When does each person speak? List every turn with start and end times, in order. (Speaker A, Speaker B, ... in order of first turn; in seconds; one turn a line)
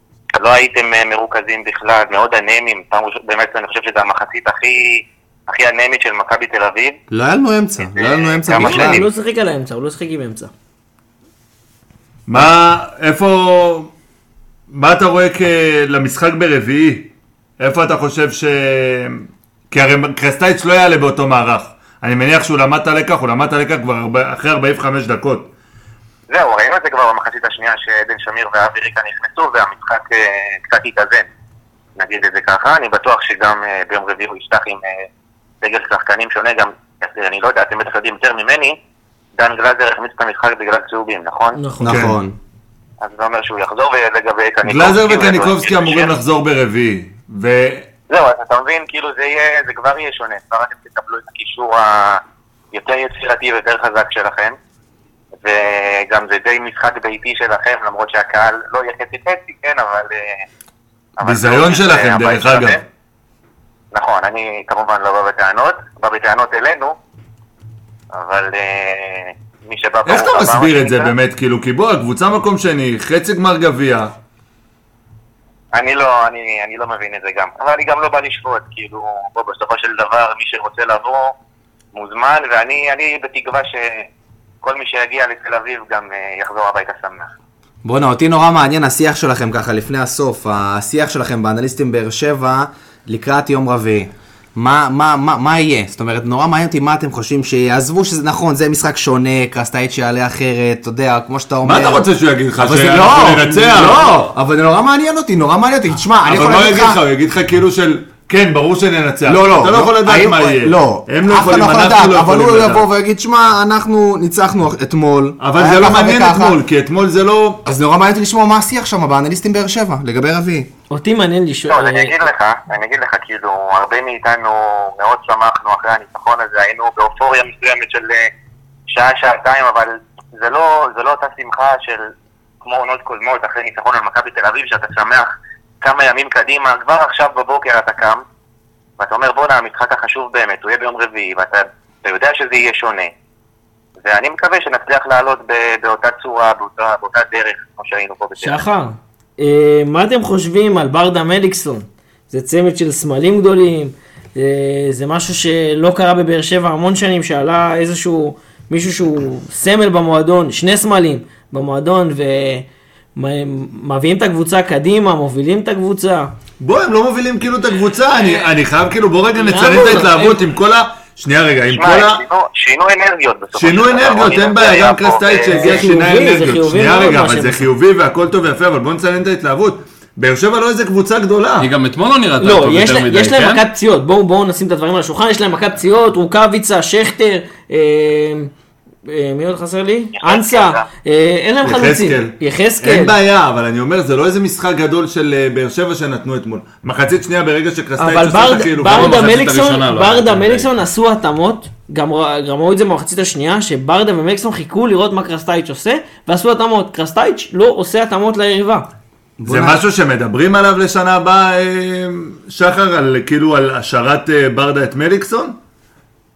Speaker A: 0.3-7.0
Speaker B: 7.1-9.0
Speaker A: 7.9-9.1
Speaker C: 8.6-10.5
Speaker D: 12.3-13.9
Speaker D: 14.7-25.5
Speaker A: 26.3-31.3
Speaker A: 32.0-35.1
Speaker A: 35.6-38.8
Speaker A: 39.4-41.6
Speaker C: 41.6-42.1
Speaker B: 41.8-42.4
Speaker D: 41.8-42.1
Speaker A: 43.0-46.1
Speaker D: 44.6-47.9
Speaker A: 48.1-54.6
Speaker A: 55.3-60.4
Speaker A: 61.2-62.8
Speaker D: 61.2-62.8
Speaker A: 63.9-67.0
Speaker A: 68.1-71.1
Speaker D: 70.0-74.1
Speaker A: 75.7-81.3
Speaker A: 81.9-84.1
Speaker A: 84.6-87.3
Speaker B: 87.8-102.0
Speaker D: 101.6-104.1
Speaker B: 102.6-107.0
Speaker D: 106.2-112.8
Speaker B: 109.2-116.6
Speaker D: 115.4-117.6
Speaker B: 117.6-120.7
Speaker C: 120.9-122.2
Speaker A: 121.7-128.3
Speaker A: 128.9-132.1
Speaker A: 132.6-135.3
Speaker A: 135.8-138.2
Speaker A: 139.0-143.1
Speaker A: 144.0-148.6
Speaker C: 148.4-166.3
Speaker D: 166.6-172.2
Speaker C: 169.3-170.4
Speaker A: 171.7-175.8
Speaker D: 173.5-181.7
Speaker C: 175.5-177.7
Speaker E: 181.6-183.6
Speaker C: 182.4-188.5
Speaker C: 189.1-193.2
Speaker A: 190.2-190.8
Speaker D: 191.6-199.3
Speaker C: 198.0-208.9
Speaker E: 198.9-200.7
Speaker B: 209.4-209.8
Speaker D: 209.4-215.6